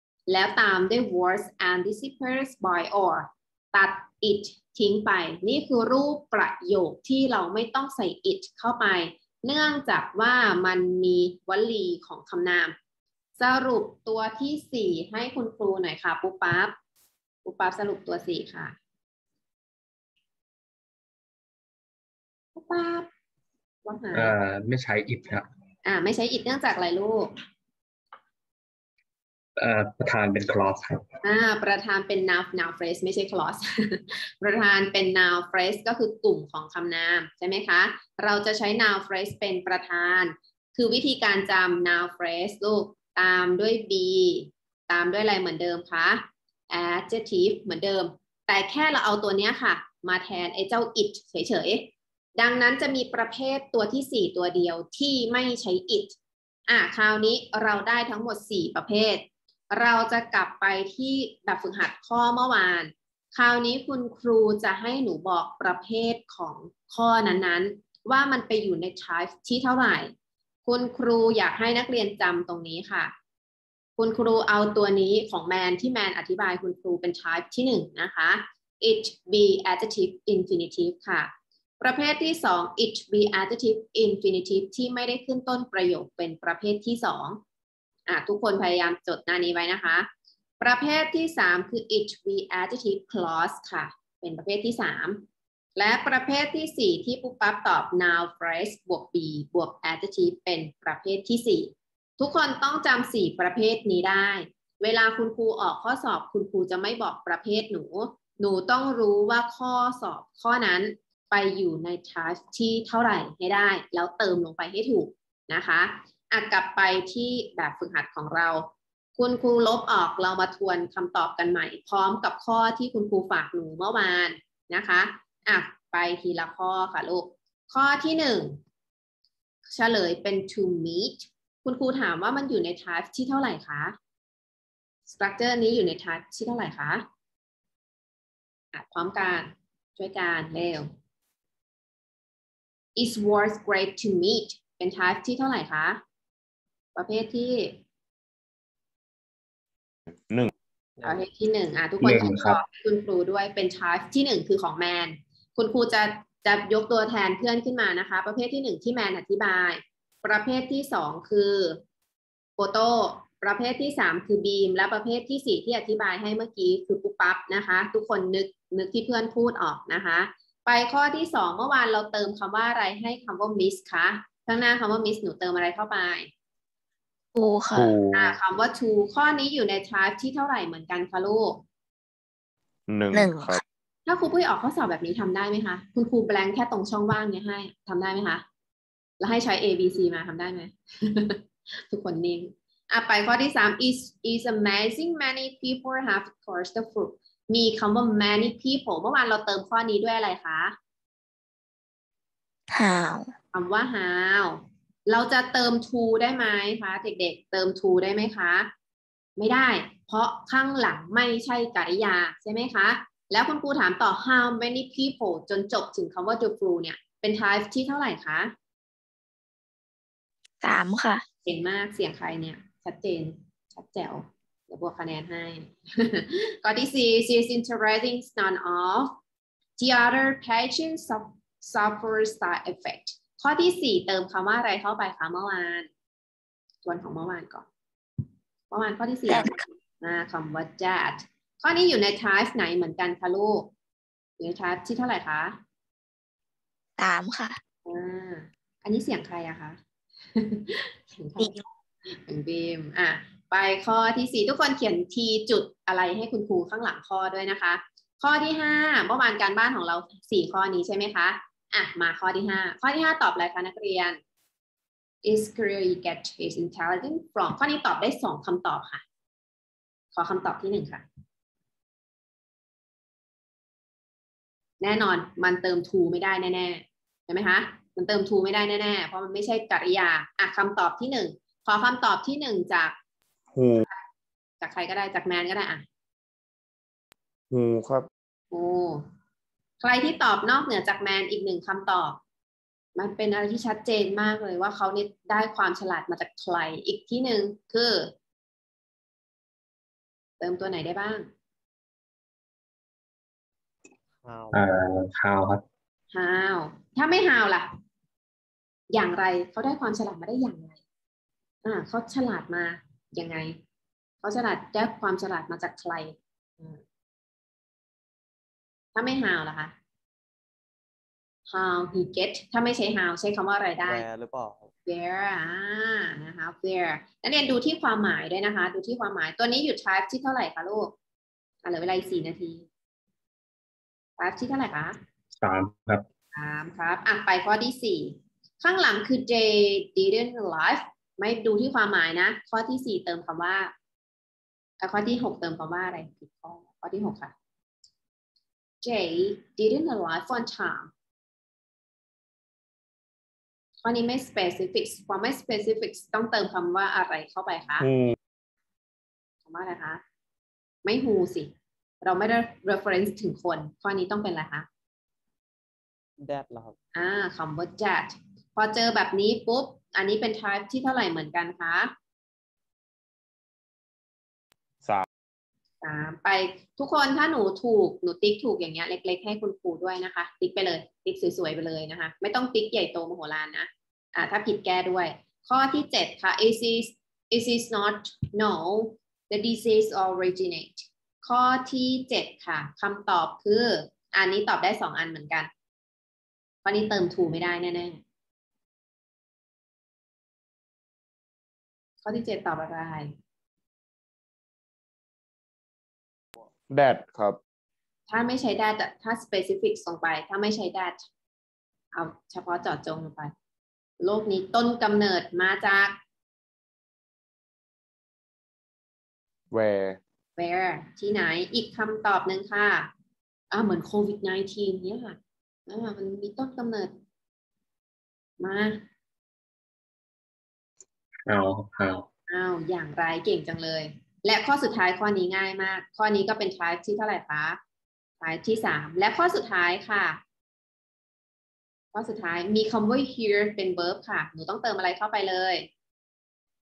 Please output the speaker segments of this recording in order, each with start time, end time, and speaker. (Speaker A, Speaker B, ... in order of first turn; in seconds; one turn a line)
Speaker A: 0.3-12.7
Speaker A: 13.4-16.7
Speaker A: 17.4-18.8
Speaker A: 22.6-23.1
Speaker A: 23.8-24.4
Speaker B: 24.1-25.4
Speaker A: 25.8-27.3
Speaker B: 29.6-31.1
Speaker A: 31.2-56.1
Speaker A: 56.7-70.1
Speaker A: 70.7-73.1
Speaker A: 74.0-87.4
Speaker A: 88.1-90.1
Speaker A: 90.6-95.2
Speaker A: 95.8-128.6
Speaker A: 129.7-133.9
Speaker A: 135.1-137.0
Speaker A: 138.7-140.9
Speaker A: 142.9-146.0
Speaker A: 146.9-147.8
Speaker A: 151.0-161.8
Speaker B: 152.0-152.6
Speaker A: 162.6-176.3
Speaker C: 177.3-178.0
Speaker D: 177.7-178.4
Speaker A: 178.1-181.6
Speaker D: 182.9-183.6
Speaker C: 183.1-183.6
Speaker A: 184.1-188.4
Speaker A: 189.2-200.7
Speaker C: 202.7-203.3
Speaker A: 203.5-208.7
Speaker A: 209.4-218.5
Speaker C: 220.6-221.2
Speaker A: 221.4-229.2
Speaker A: 229.8-235.9
Speaker A: 236.8-237.7
Speaker A: 238.7-243.7
Speaker C: 239.3-239.6
Speaker A: 244.4-245.6
Speaker C: 247.0-247.6
Speaker A: 247.8-249.8
Speaker A: 250.3-264.2
Speaker C: 251.4-251.6
Speaker A: 265.2-269.0
Speaker A: 270.1-271.0
Speaker A: 274.8-282.9
Speaker D: 283.5-283.8
Speaker A: 284.6-285.8
Speaker D: 287.5-288.1
Speaker A: 288.5-289.0
Speaker A: 289.8-292.2
Speaker A: 292.9-298.1
Speaker A: 300.4-301.3
Speaker E: 304.2-304.6
Speaker B: 304.5-305.6
Speaker A: 306.1-307.7
Speaker A: 308.9-310.8
Speaker A: 311.6-313.6
Speaker A: 314.2-316.8
Speaker A: 318.9-319.7
Speaker A: 321.5-324.1
Speaker E: 323.8-324.7
Speaker A: 324.9-330.9
Speaker A: 331.6-332.6
Speaker A: 334.2-335.0
Speaker B: 335.4-336.0
Speaker A: 336.3-343.7
Speaker A: 344.8-347.3
Speaker A: 348.8-350.9
Speaker A: 353.8-357.9
Speaker D: 357.8-358.1
Speaker A: 359.4-360.0
Speaker A: 360.8-361.5
Speaker A: 362.0-364.6
Speaker E: 366.2-366.8
Speaker A: 366.9-371.9
Speaker A: 375.8-395.5
Speaker A: 396.6-398.0
Speaker A: 402.0-403.1
Speaker D: 406.7-407.4
Speaker A: 408.1-411.1
Speaker A: 411.9-413.3
Speaker A: 414.0-416.0
Speaker D: 419.5-420.0
Speaker A: 420.4-422.9
Speaker A: 423.5-425.2
Speaker A: 425.7-426.9
Speaker A: 428.4-428.8
Speaker B: 431.2-432.1
Speaker A: 432.3-437.6
Speaker A: 438.2-440.2
Speaker A: 441.9-445.7